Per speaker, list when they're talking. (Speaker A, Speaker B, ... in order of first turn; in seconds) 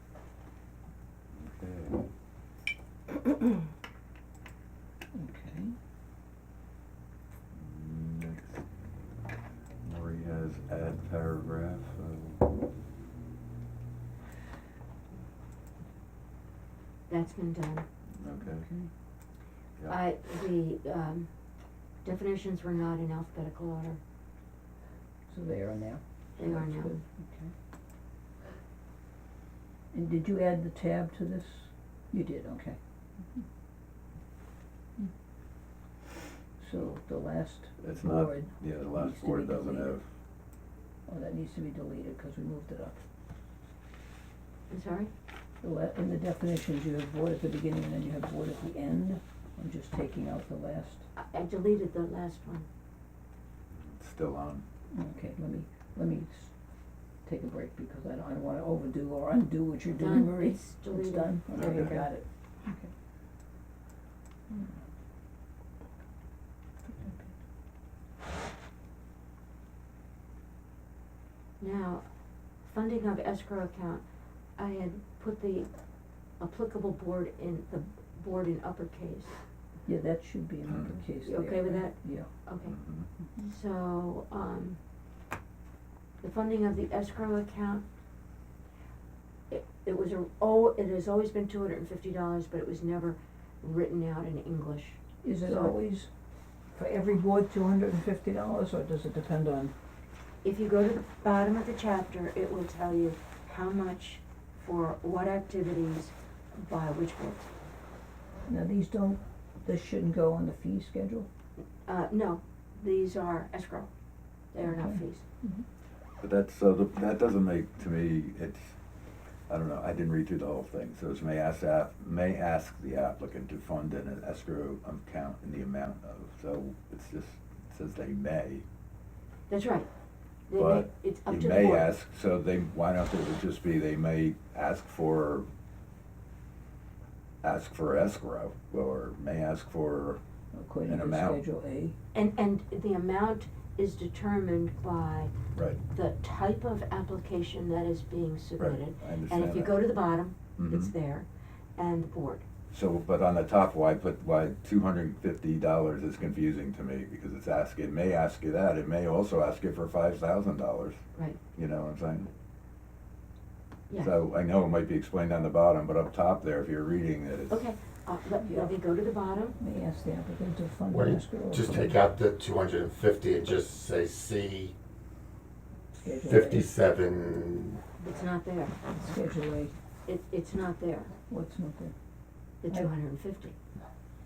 Speaker A: 1.3-2.0, 7.5-8.6, 9.8-12.5, 18.2-18.7, 37.8-40.0, 53.8-54.6, 61.5-62.0, 80.7-81.0, 82.6-83.1, 116.2-118.6, 119.5-128.6, 130.5-135.5, 137.4-140.2, 140.9-141.4, 145.6-145.8, 148.6-149.8, 150.6-150.9, 152.7-161.0, 161.6-162.3, 164.0-167.6
Speaker B: 5.1-5.8, 18.4-18.9, 25.3-27.5, 29.9-32.8, 36.6-40.0, 41.1-43.0, 45.6-51.0, 54.9-56.5, 57.2-62.9, 64.5-64.8, 66.9-67.3, 79.9-82.3, 95.2-96.1, 96.8-99.7, 108.5-111.3, 114.6-115.6, 140.5-141.9, 168.4-168.7, 169.6-172.0, 176.0-176.7, 179.0-179.7, 181.3-181.9
Speaker C: 17.1-17.9, 19.9-21.3, 22.0-24.0, 26.4-27.0, 44.7-45.1, 51.2-52.7, 60.0-62.0, 71.6-72.0, 72.6-74.0, 74.6-75.7, 76.4-79.4, 81.2-82.8, 83.4-84.8, 86.2-87.8, 89.5-95.7, 100.4-107.5, 111.9-113.9, 114.5-115.2, 129.5-129.9, 130.5-131.9, 142.1-145.3, 145.9-152.4, 163.9-164.2, 167.5-169.6, 178.0-178.8, 180.1-181.1, 182.6-183.6
Speaker D: 170.9-174.8, 176.1-177.8